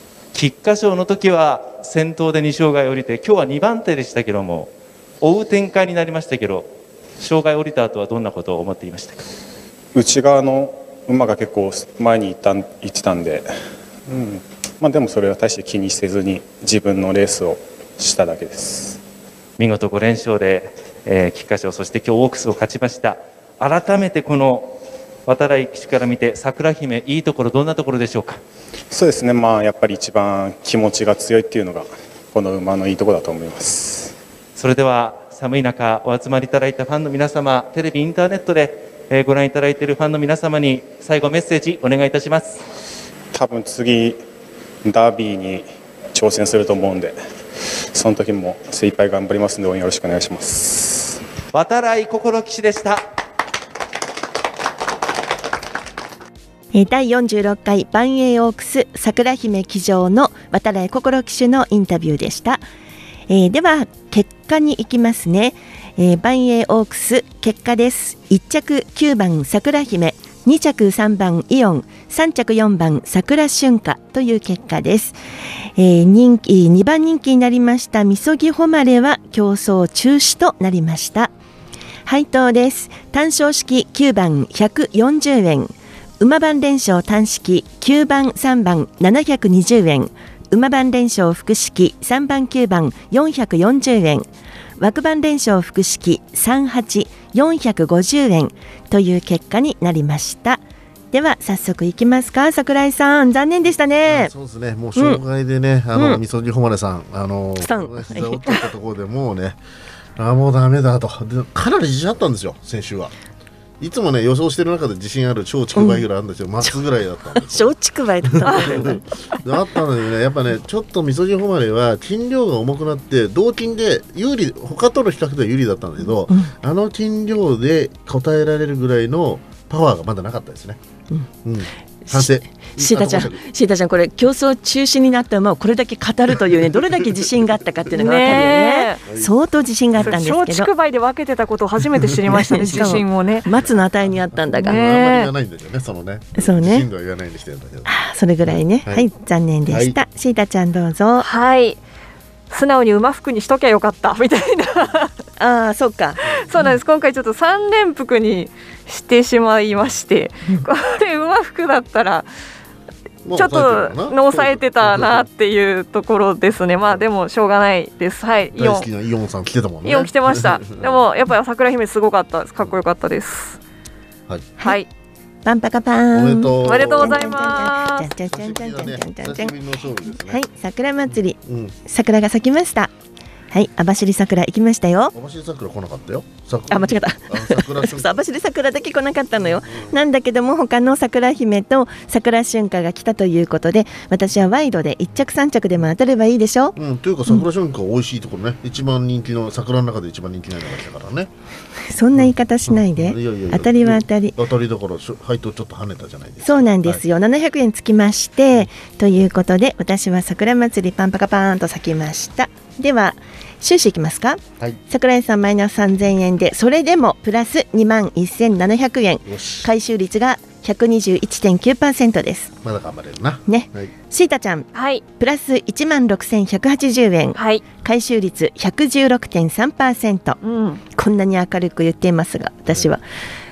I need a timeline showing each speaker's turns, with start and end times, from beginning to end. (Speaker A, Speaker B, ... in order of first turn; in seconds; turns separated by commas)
Speaker A: 0.3-9.2, Speaker B: 9.9-13.5, Speaker B: 14.1-19.0, Speaker A: 19.6-24.8, Speaker A: 25.3-28.4, Speaker B: 28.9-34.1, Speaker A: 34.5-42.6, Speaker B: 43.3-44.2, Speaker B: 44.8-47.1, Speaker B: 47.9-51.2, Speaker A: 51.5-53.0, Speaker C: 56.7-62.6, Speaker C: 63.3-75.2, Speaker C: 75.8-81.3, Speaker C: 82.0-94.3, Speaker C: 94.8-104.3, Speaker D: 104.0-109.6, Speaker C: 105.0-105.2, Speaker C: 105.9-106.2, Speaker C: 107.6-108.6, Speaker D: 110.2-113.1, Speaker D: 113.8-117.7, Speaker C: 115.8-116.0, Speaker C: 117.4-119.0, Speaker D: 118.2-130.8, Speaker D: 131.4-133.4, Speaker C: 132.1-140.7, Speaker E: 137.9-139.0, Speaker D: 139.1-139.3, Speaker E: 140.0-143.5, Speaker C: 142.5-144.8, Speaker D: 142.5-142.8, Speaker D: 144.5-147.9, Speaker E: 144.6-145.3, Speaker C: 146.3-146.8, Speaker C: 147.8-151.3, Speaker D: 148.4-149.1, Speaker D: 149.7-150.0, Speaker E: 151.2-151.8, Speaker E: 152.5-155.1, Speaker C: 155.4-156.7, Speaker E: 156.2-162.3, Speaker D: 163.2-165.3, Speaker E: 163.3-168.9, Speaker D: 168.5-171.1, Speaker E: 169.8-173.6, Speaker D: 174.3-174.5, Speaker E: 174.6-174.9, Speaker C: 175.4-179.6, Speaker D: 176.1-177.7, Speaker E: 176.6-178.1, Speaker D: 178.3-180.4, Speaker C: 180.1-182.9, Speaker D: 181.1-181.7, Speaker C: 183.5-185.1, Speaker D: 185.1-188.1, Speaker C: 186.7-197.4, Speaker D: 189.4-189.9, Speaker D: 196.8-201.3, Speaker C: 201.9-204.3, Speaker D: 202.2-207.0, Speaker C: 206.4-222.5, Speaker D: 219.2-219.7, Speaker D: 222.6-223.9, Speaker C: 223.5-230.4, Speaker E: 224.7-225.0, Speaker E: 227.3-227.6, Speaker E: 230.4-230.8, Speaker C: 230.9-233.0